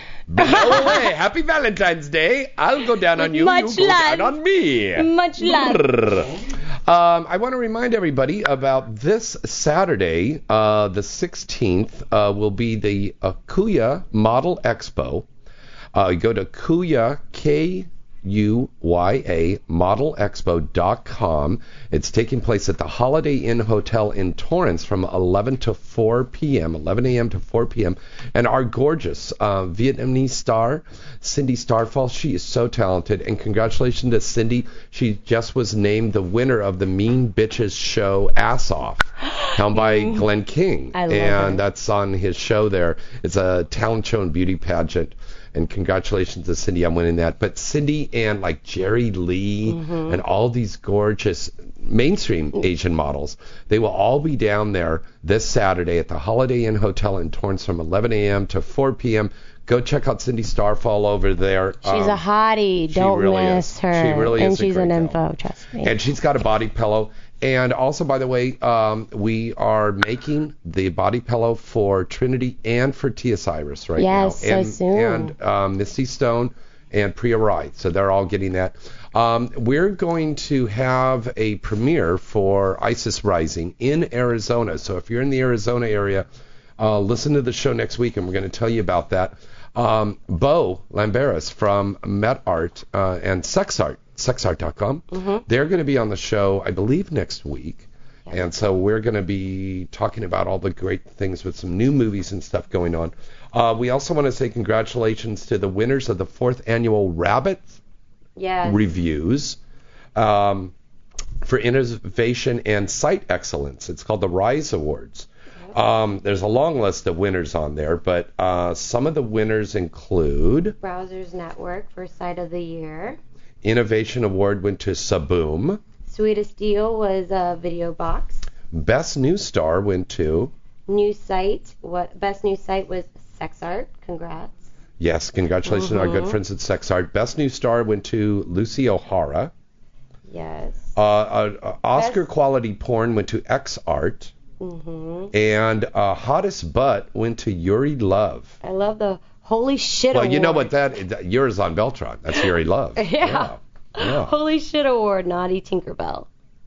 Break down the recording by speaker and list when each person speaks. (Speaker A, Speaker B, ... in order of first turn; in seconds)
Speaker A: 0.3-15.3, 15.9-62.2, 62.9-65.2, 65.8-86.3, 86.8-107.8, 108.7-109.6, 110.2-110.7, 111.4-120.8, 123.6-125.8, 128.7-130.5, 135.0-139.5, 141.0-144.3, 145.3-148.6, 150.1-154.3
Speaker B: 0.4-1.1, 3.1-4.4, 5.0-5.9, 39.3-40.3, 40.9-41.6, 49.7-50.2, 61.8-65.9, 74.0-75.3, 95.1-95.4, 108.4-108.8, 120.8-123.2, 126.1-128.5, 130.9-134.6, 135.7-136.4, 140.3-140.9, 141.9-142.3, 144.6-145.3, 148.6-150.7, 152.3-156.3